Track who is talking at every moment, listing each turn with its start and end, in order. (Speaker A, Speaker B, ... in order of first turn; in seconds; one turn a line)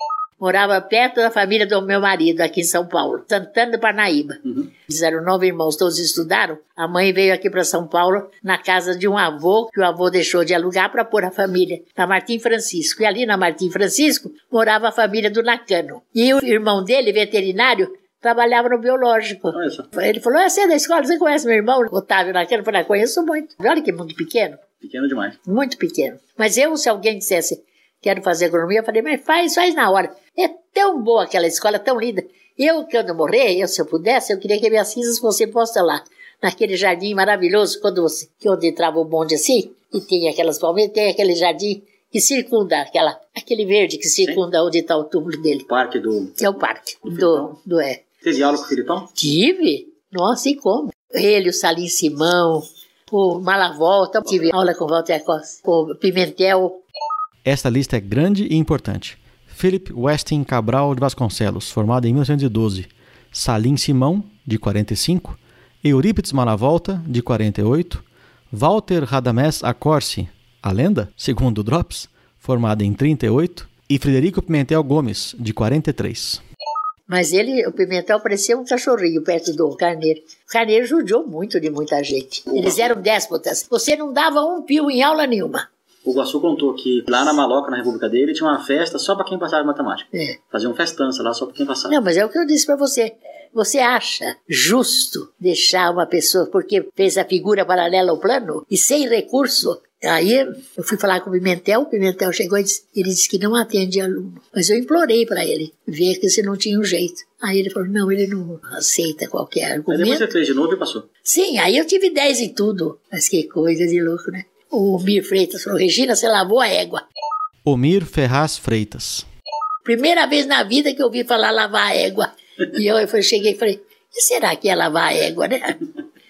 Speaker A: 0.4-24.6
Speaker B: 19.5-19.9
Speaker B: 24.8-25.4
Speaker A: 25.4-45.6
Speaker B: 45.7-46.4
Speaker A: 46.4-48.0
Speaker B: 47.0-47.5
Speaker B: 48.2-49.1
Speaker A: 49.1-56.8
Speaker C: 57.4-76.4
Speaker A: 77.1-85.7
Speaker B: 82.5-82.9
Speaker B: 86.0-92.0
Speaker A: 91.9-110.3
Speaker B: 109.9-111.0
Speaker A: 111.2-117.0
Speaker C: 117.6-119.3
Speaker A: 119.8-125.8